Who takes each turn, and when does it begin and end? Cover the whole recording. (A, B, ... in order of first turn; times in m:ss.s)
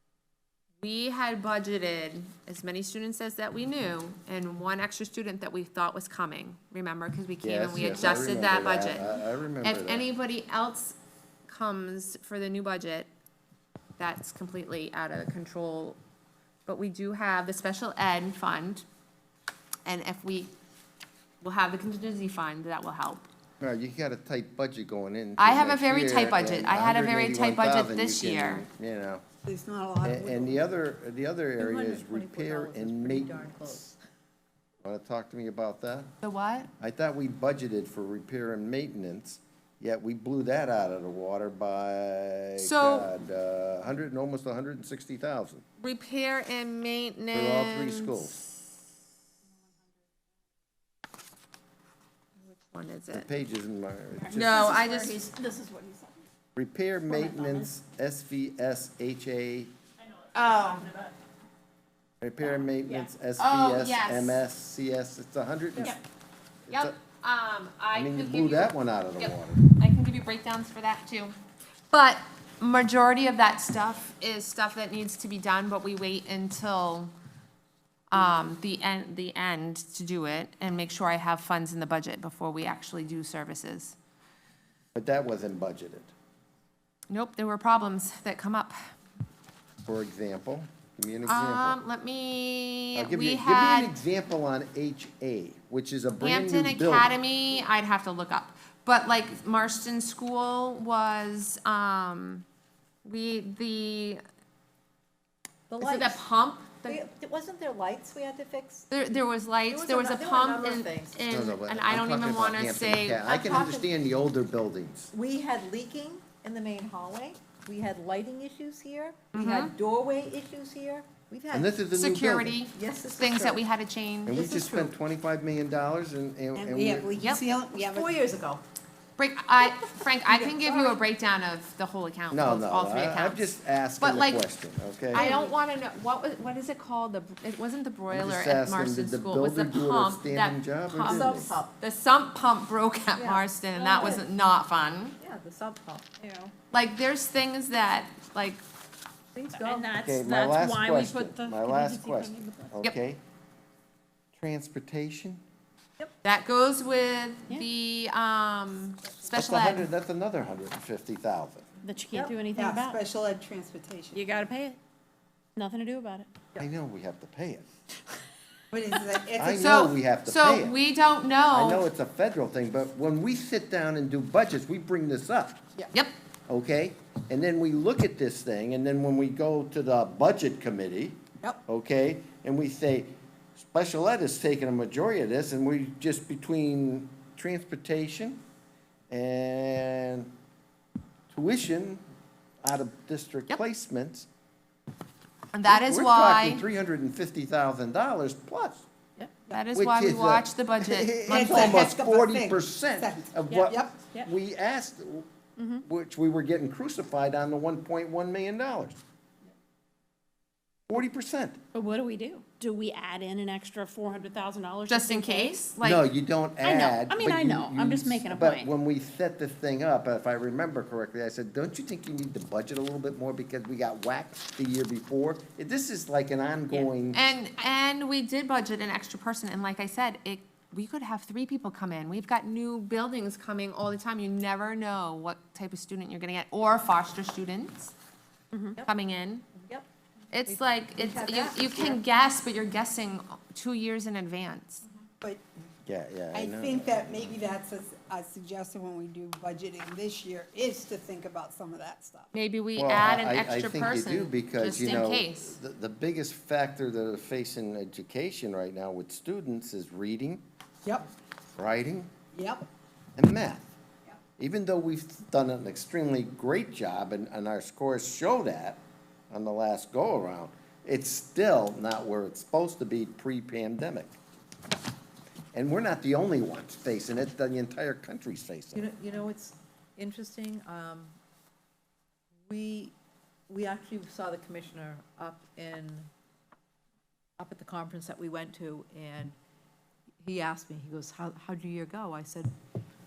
0:00.8-0:11.0 A
0:07.4-0:10.0 B
0:11.5-0:13.1 A
0:14.0-0:16.0 A
0:16.6-0:18.8 A
0:19.8-0:20.5 A
0:21.4-0:23.3 A
0:23.6-0:29.2 B
0:25.4-0:28.6 A
0:29.4-0:30.6 C
0:30.0-0:33.9 B
0:31.6-0:33.9 D
0:34.8-0:36.1 B
0:36.2-0:36.7 A
0:36.8-0:45.6 B
0:42.6-0:43.1 A
0:45.8-0:48.2 A
0:47.3-0:48.4 B
0:52.5-0:53.3 A
0:53.1-0:54.8 B
0:54.2-0:56.2 E
0:54.3-0:55.3 A
0:56.6-0:59.7 B
0:57.1-0:57.7 E
1:00.3-1:00.9 A
1:00.6-1:01.1 E
1:02.2-1:06.0 B
1:03.4-1:04.4 A
1:06.7-1:06.9 B
1:06.7-1:11.3 A
1:07.9-1:09.6 B
1:11.9-1:17.1 A
1:18.1-1:24.0 A
1:24.9-1:26.1 B
1:27.1-1:28.9 A
1:29.8-1:31.8 B
1:31.2-1:34.0 A
1:32.9-1:37.1 B
1:36.2-1:42.4 A
1:43.0-1:44.2 A
1:45.7-1:46.2 D
1:45.8-1:47.0 A
1:46.8-1:48.9 D
1:48.9-1:53.6 A
1:49.7-1:51.2 D
1:51.3-1:55.1 B
1:53.4-1:53.9 D
1:55.1-2:01.8 D
1:59.3-1:59.7 A
2:01.5-2:02.6 B
2:01.9-2:04.6 A
2:02.7-2:03.6 D
2:04.2-2:07.2 B
2:04.4-2:04.9 D
2:06.5-2:08.2 C
2:07.7-2:08.6 D
2:09.2-2:14.4 A
2:10.3-2:11.0 C
2:12.3-2:15.3 B
2:15.1-2:25.2 A
2:15.2-2:15.5 D
2:18.1-2:21.5 B
2:21.1-2:21.7 D
2:23.2-2:24.2 D
2:25.2-2:26.5 D
2:26.7-2:28.6 A
2:29.3-2:30.0 D
2:29.5-2:32.7 E
2:30.0-2:33.2 B
2:34.3-2:35.4 B
2:36.2-2:39.9 A
2:39.3-2:41.6 B
2:41.8-2:43.0 E
2:42.1-2:44.2 C
2:44.1-2:44.8 E
2:45.6-2:46.3 E
2:46.6-2:47.7 B
2:48.7-2:49.8 C
2:49.4-2:50.8 B
2:49.5-2:51.8 A
2:51.5-2:55.6 B
2:56.5-3:08.4 B
3:09.1-3:10.3 B
3:11.3-3:12.0 B
3:12.6-3:14.3 B
3:15.5-3:16.6 A
3:15.6-3:18.8 B
3:19.5-3:22.0 A
3:19.7-3:25.3 B
3:21.3-3:24.0 C
3:23.5-3:24.3 E
3:25.6-3:25.8 E
3:25.8-3:29.0 B
3:30.9-3:31.6 B
3:31.7-3:35.6 E
3:34.9-3:36.1 A
3:35.8-3:47.3 B
3:36.6-3:38.7 E
3:47.1-3:57.9 A
3:58.8-3:59.5 A
3:59.6-3:59.8 D
4:00.3-4:04.8 A
4:00.4-4:02.0 D
4:05.8-4:07.4 B
4:06.3-4:12.3 C
4:12.3-4:15.6 A
4:12.8-4:20.4 B
4:20.8-4:21.1 C
4:21.6-4:22.1 B
4:22.3-4:22.6 C
4:23.2-4:23.8 B
4:24.4-4:34.1 B
4:35.5-4:38.9 B
4:38.7-4:41.2 D
4:42.4-4:42.9 D
4:43.5-4:46.1 D
4:47.4-4:49.4 D
4:50.2-4:52.5 D